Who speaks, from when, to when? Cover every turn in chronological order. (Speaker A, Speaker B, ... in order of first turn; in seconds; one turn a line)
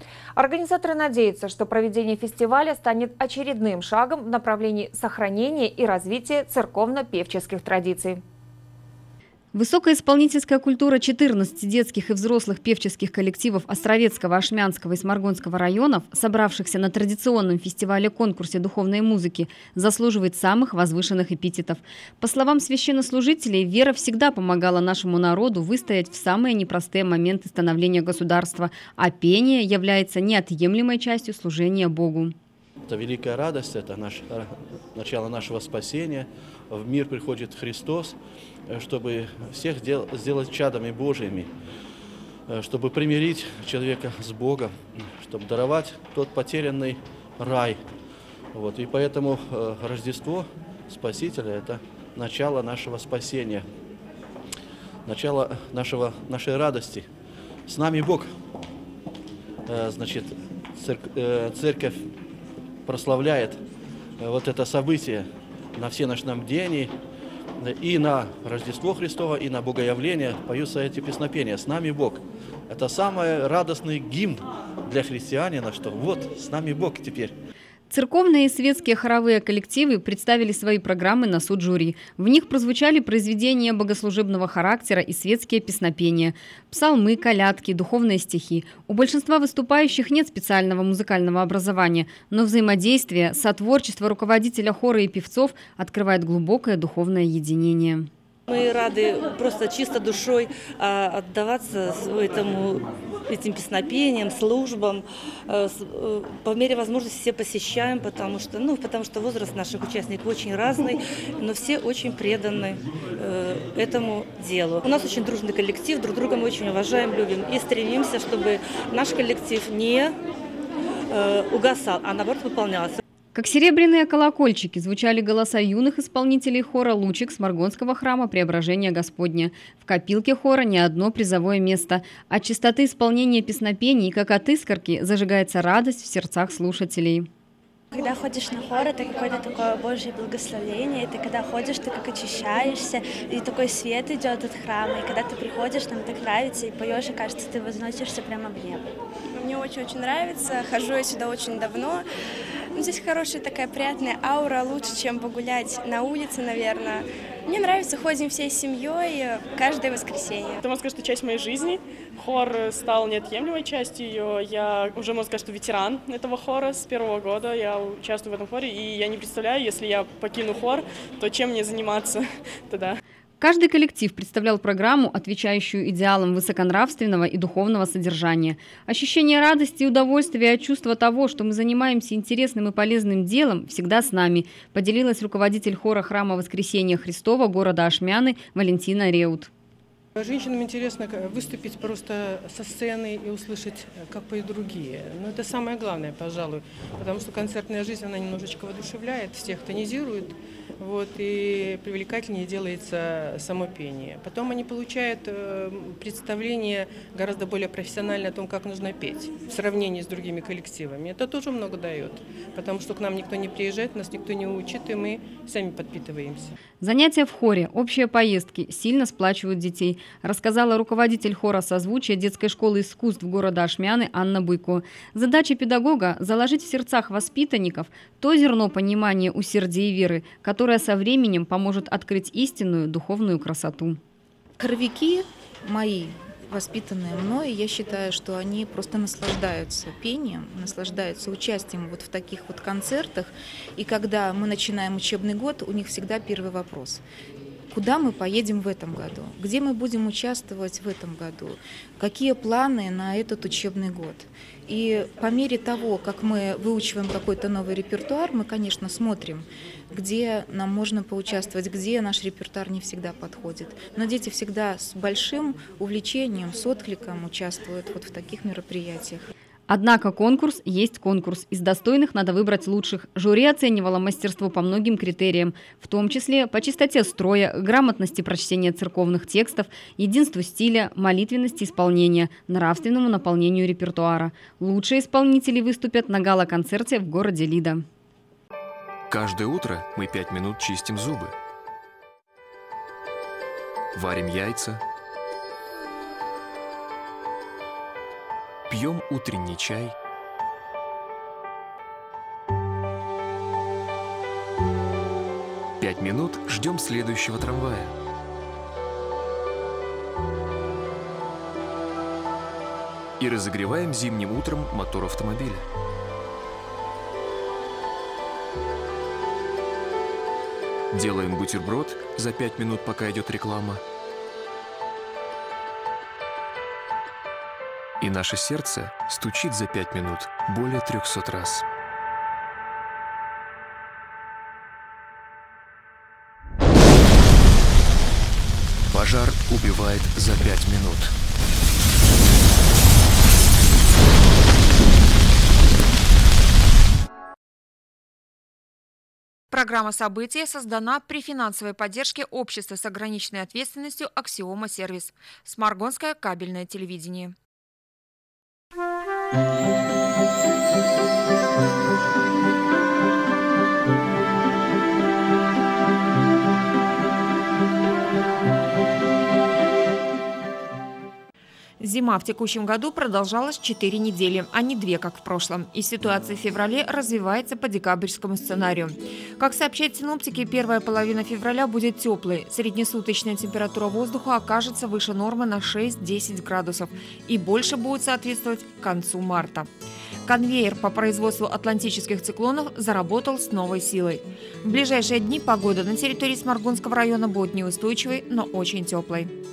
Speaker A: 0.3-8.2
Speaker B: 9.5-32.3
Speaker C: 32.9-38.2
Speaker C: 38.7-41.5
Speaker C: 42.5-47.9
Speaker C: 48.5-53.6
Speaker C: 55.0-57.1
Speaker C: 57.7-58.3
Speaker C: 59.6-62.0
Speaker C: 62.8-63.6
Speaker C: 64.2-66.9
Speaker C: 67.6-77.3
Speaker B: 77.9-98.1
Speaker D: 98.5-120.1
Speaker D: 121.1-123.0
Speaker B: 123.3-137.3
Speaker E: 137.9-148.9
Speaker F: 149.3-152.0
Speaker F: 152.7-160.6
Speaker G: 160.6-173.0
Speaker B: 173.4-189.5
Speaker H: 190.2-216.5
Speaker B: 216.8-234.0
Speaker I: 234.6-247.0
Speaker I: 247.7-269.3
Speaker B: 269.7-287.8
Speaker J: 289.1-291.3
Speaker J: 293.9-294.8
Speaker J: 298.7-299.9
Speaker J: 305.8-307.9
Speaker J: 313.2-315.6
Speaker J: 320.9-323.8
Speaker J: 328.0-331.6
Speaker J: 338.9-341.1
Speaker A: 349.5-357.3
Speaker A: 371.8-389.7
Speaker A: 390.2-399.3